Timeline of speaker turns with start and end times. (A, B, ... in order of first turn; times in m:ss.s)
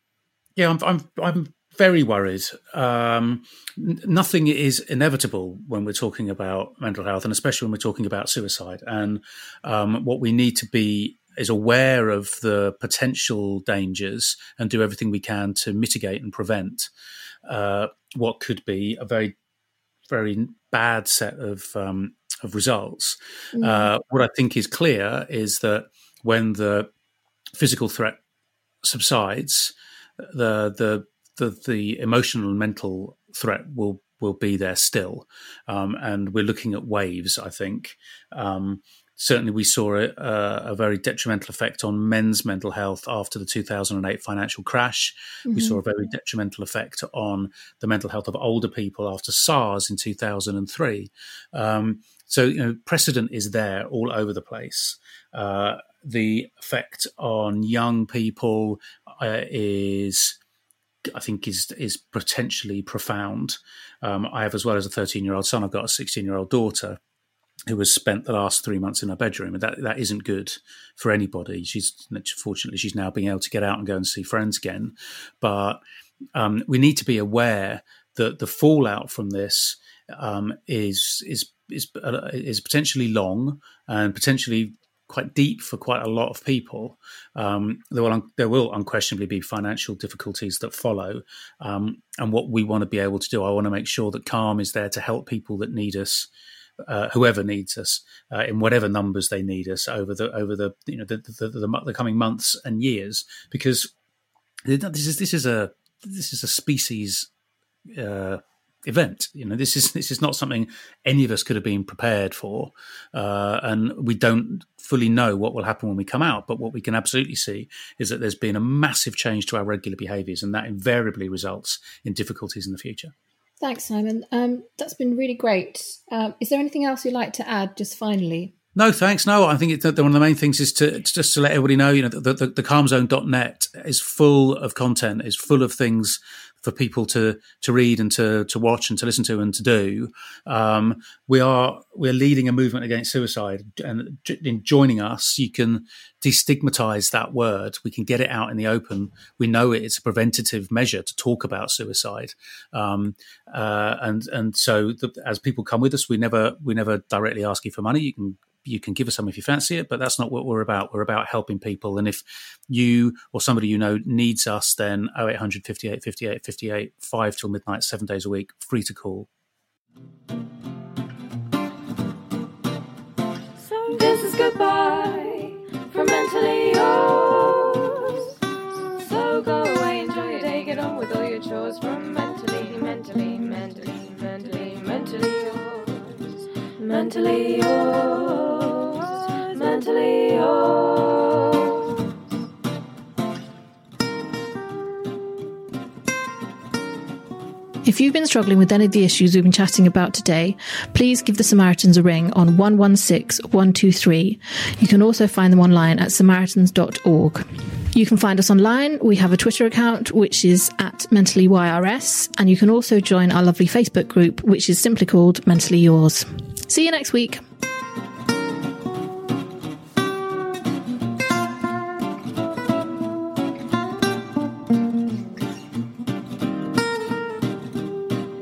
0:00.6-0:16.9 A
0:17.4-0:19.3 A
0:20.1-0:26.9 A
0:23.5-0:23.9 B
0:27.5-0:28.2 A
0:28.8-0:29.7 A
0:30.3-1:00.4 A
0:45.5-0:45.8 B
1:01.1-1:07.0 A
1:07.7-1:15.8 A
1:16.3-1:36.3 A
1:36.8-1:43.9 A
1:44.6-1:47.3 A
1:47.9-2:03.1 A
2:03.6-2:08.5 B
2:08.8-2:49.3 A
2:53.6-2:58.3 C
2:59.0-3:12.0 C
3:17.8-3:37.4 B